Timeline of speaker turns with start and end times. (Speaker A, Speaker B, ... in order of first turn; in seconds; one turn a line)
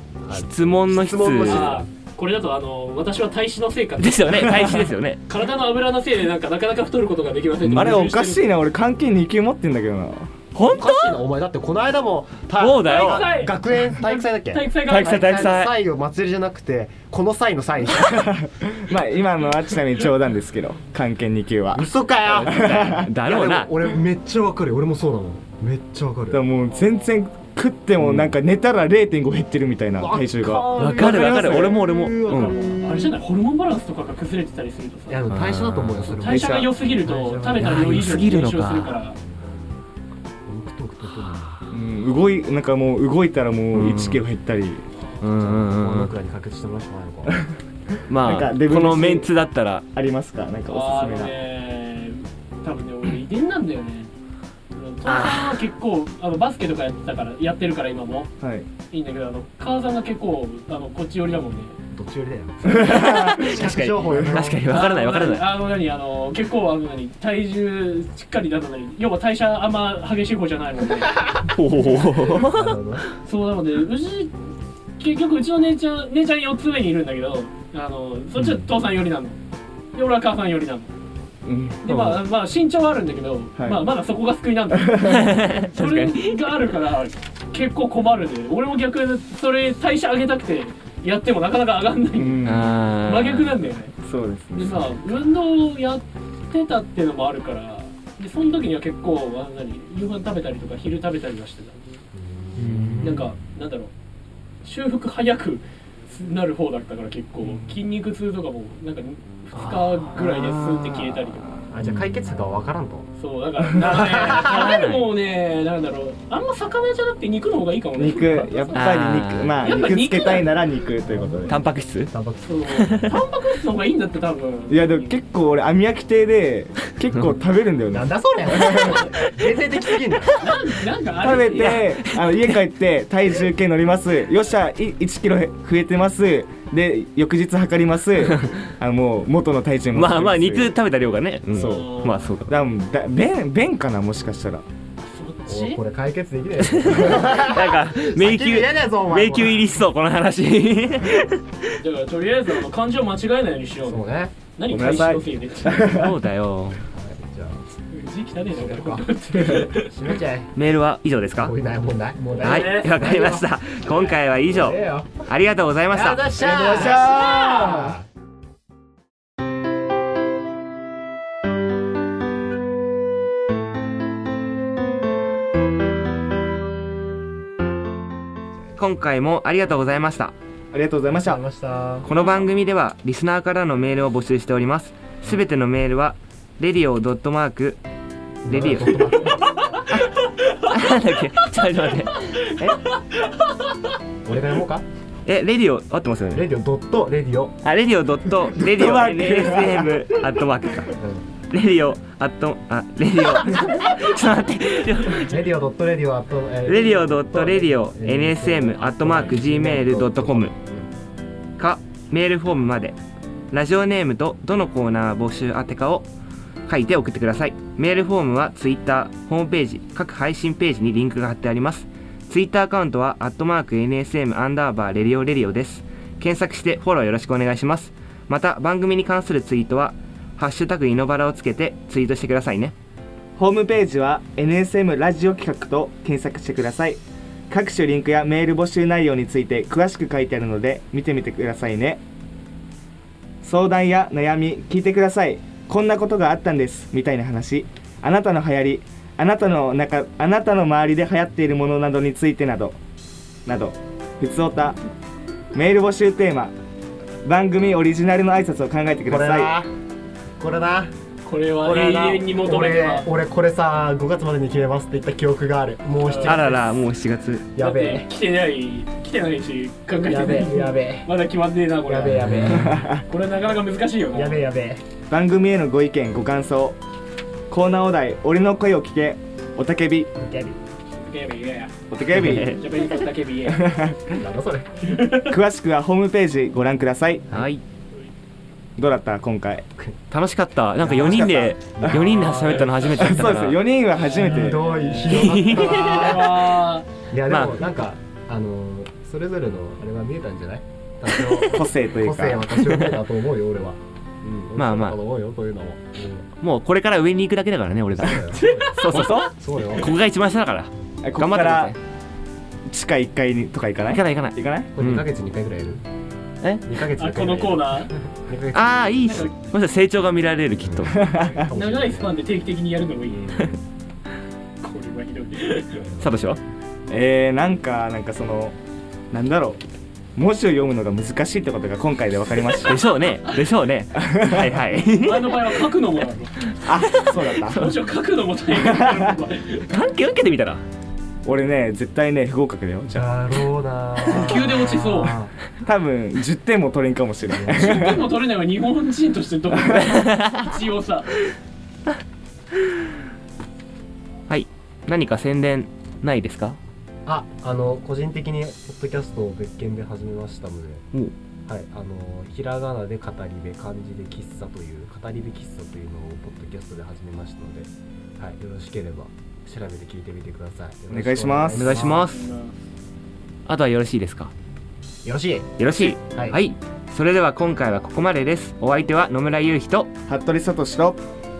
Speaker A: 0.2-1.9
Speaker B: 0.3-1.8
Speaker C: 1.4-4.8
Speaker B: 4.0-5.2
Speaker C: 5.3-8.5
Speaker D: 7.7-10.3
Speaker B: 7.7-8.0
Speaker B: 10.5-11.2
Speaker A: 10.6-18.4
Speaker B: 12.6-13.3
Speaker C: 12.8-15.5
Speaker B: 14.8-15.8
Speaker D: 17.9-23.1
Speaker A: 21.7-26.4
Speaker B: 22.5-23.7
Speaker D: 26.3-31.0
Speaker A: 30.0-33.2
Speaker B: 30.7-32.6
Speaker C: 31.3-35.2
Speaker A: 35.1-37.9
Speaker B: 35.3-36.2
Speaker C: 36.0-39.2
Speaker D: 36.2-36.7
Speaker B: 37.5-39.0
Speaker A: 39.1-39.8
Speaker A: 40.5-41.6
Speaker D: 41.7-44.8
Speaker B: 43.7-44.2
Speaker B: 45.2-46.1
Speaker A: 45.2-47.5
Speaker B: 48.1-49.9
Speaker D: 48.2-49.3
Speaker D: 49.9-51.3
Speaker C: 50.7-54.1
Speaker C: 54.7-58.3
Speaker B: 55.0-55.6
Speaker D: 58.4-58.7
Speaker C: 58.9-61.8
Speaker A: 61.9-64.7
Speaker D: 62.7-64.4
Speaker B: 62.7-65.5
Speaker C: 64.7-71.3
Speaker B: 71.4-72.8
Speaker A: 71.8-73.0
Speaker C: 73.2-74.3
Speaker C: 75.0-79.4
Speaker C: 79.9-80.9
Speaker D: 81.5-82.0
Speaker C: 81.8-93.9
Speaker B: 81.9-82.2
Speaker D: 84.7-85.2
Speaker B: 85.0-86.4
Speaker D: 92.2-92.8
Speaker B: 92.4-93.6
Speaker D: 94.0-95.0
Speaker C: 94.5-102.0
Speaker A: 102.1-103.3
Speaker B: 102.6-103.2
Speaker C: 103.0-103.9
Speaker C: 104.6-111.5
Speaker B: 109.5-111.2
Speaker A: 111.7-113.1
Speaker B: 111.8-112.1
Speaker C: 113.2-119.0
Speaker A: 113.8-114.6
Speaker B: 114.2-115.1
Speaker D: 118.0-121.6
Speaker B: 118.7-119.6
Speaker C: 119.5-120.7
Speaker A: 121.0-121.6
Speaker B: 121.5-122.1
Speaker A: 122.1-122.6
Speaker C: 122.4-125.2
Speaker B: 122.7-123.2
Speaker D: 124.7-129.1
Speaker A: 127.9-130.7
Speaker C: 128.8-129.1
Speaker C: 130.3-131.9
Speaker D: 131.2-140.7
Speaker B: 131.5-132.5
Speaker B: 139.9-142.6
Speaker D: 141.5-141.9
Speaker C: 141.6-142.3
Speaker D: 142.5-144.6
Speaker C: 145.0-145.8
Speaker A: 145.4-149.8
Speaker B: 146.6-151.5
Speaker C: 151.8-156.0
Speaker A: 153.8-154.3
Speaker D: 154.7-156.1
Speaker B: 155.8-156.8
Speaker A: 156.9-157.6
Speaker C: 157.9-159.9
Speaker A: 158.5-160.5
Speaker B: 160.6-161.5
Speaker A: 161.4-163.5
Speaker C: 162.3-163.0
Speaker B: 162.4-166.3
Speaker A: 164.3-165.2
Speaker A: 165.9-168.0
Speaker D: 166.4-168.0
Speaker C: 166.6-167.9
Speaker B: 178.8-180.3
Speaker D: 180.7-181.4
Speaker A: 181.1-182.1
Speaker B: 182.0-187.8
Speaker A: 188.4-189.7
Speaker B: 188.5-189.2
Speaker C: 189.4-189.8
Speaker B: 189.9-192.5
Speaker C: 192.4-193.2
Speaker A: 194.2-194.8
Speaker B: 195.2-196.5
Speaker A: 196.3-197.6
Speaker B: 197.6-200.9
Speaker D: 198.6-200.2
Speaker A: 200.9-201.2
Speaker B: 201.5-205.4
Speaker A: 205.1-210.9
Speaker B: 206.7-210.5
Speaker B: 211.6-213.0
Speaker B: 213.5-216.1
Speaker B: 216.7-232.7
Speaker D: 233.4-242.0
Speaker D: 243.4-252.8
Speaker D: 253.4-254.8
Speaker D: 255.5-256.5
Speaker D: 257.2-259.5
Speaker A: 259.1-259.7
Speaker A: 260.4-260.9
Speaker C: 261.2-263.1
Speaker A: 261.6-266.8
Speaker C: 266.0-266.4
Speaker B: 266.2-267.4
Speaker A: 267.5-268.1
Speaker C: 267.6-272.3
Speaker A: 270.1-271.1
Speaker A: 271.9-272.9
Speaker B: 272.1-272.8
Speaker D: 272.4-273.1
Speaker C: 273.1-274.4
Speaker A: 274.1-274.8
Speaker D: 275.1-276.8
Speaker D: 277.5-280.1
Speaker A: 280.1-280.6
Speaker C: 280.9-284.1
Speaker D: 281.9-282.6
Speaker B: 282.1-282.9
Speaker D: 283.6-283.9
Speaker A: 284.1-284.7
Speaker C: 284.8-285.4
Speaker D: 285.2-287.4
Speaker B: 287.3-287.6
Speaker D: 288.8-289.6
Speaker B: 290.1-293.6
Speaker A: 290.8-293.3
Speaker D: 291.8-292.2
Speaker D: 292.9-294.7
Speaker A: 294.0-306.3
Speaker C: 294.5-296.9
Speaker B: 295.1-296.3
Speaker B: 297.3-297.6
Speaker D: 301.4-302.6
Speaker B: 302.6-303.0
Speaker B: 304.5-305.0
Speaker B: 306.4-311.8
Speaker A: 308.0-309.9
Speaker C: 308.4-309.2
Speaker D: 311.0-311.7
Speaker D: 312.7-314.7
Speaker B: 313.9-315.1
Speaker A: 314.7-315.8
Speaker A: 316.6-319.3
Speaker C: 316.9-317.9
Speaker B: 318.5-321.0
Speaker C: 319.1-319.3
Speaker A: 320.6-322.1
Speaker D: 320.9-321.5
Speaker C: 321.5-323.5
Speaker A: 323.1-323.5
Speaker C: 324.6-325.9
Speaker A: 325.8-326.1
Speaker B: 326.0-326.4
Speaker D: 326.9-328.5
Speaker D: 329.1-329.6
Speaker D: 330.1-332.8
Speaker B: 332.6-335.5
Speaker D: 333.9-334.6
Speaker C: 334.9-336.3
Speaker D: 336.6-337.7
Speaker B: 336.8-337.8
Speaker C: 337.4-339.7
Speaker D: 338.6-339.2
Speaker B: 339.7-340.6
Speaker D: 341.2-343.1
Speaker A: 342.9-345.3
Speaker C: 344.0-345.2
Speaker D: 345.6-348.1
Speaker A: 347.4-347.9
Speaker C: 347.5-351.1
Speaker B: 349.7-350.4
Speaker B: 354.3-356.6
Speaker A: 357.1-360.9
Speaker A: 361.4-372.1
Speaker D: 370.9-371.8
Speaker B: 371.5-372.3
Speaker C: 371.9-372.5
Speaker B: 373.4-374.3
Speaker A: 375.0-376.4
Speaker B: 375.6-379.9
Speaker D: 380.1-381.0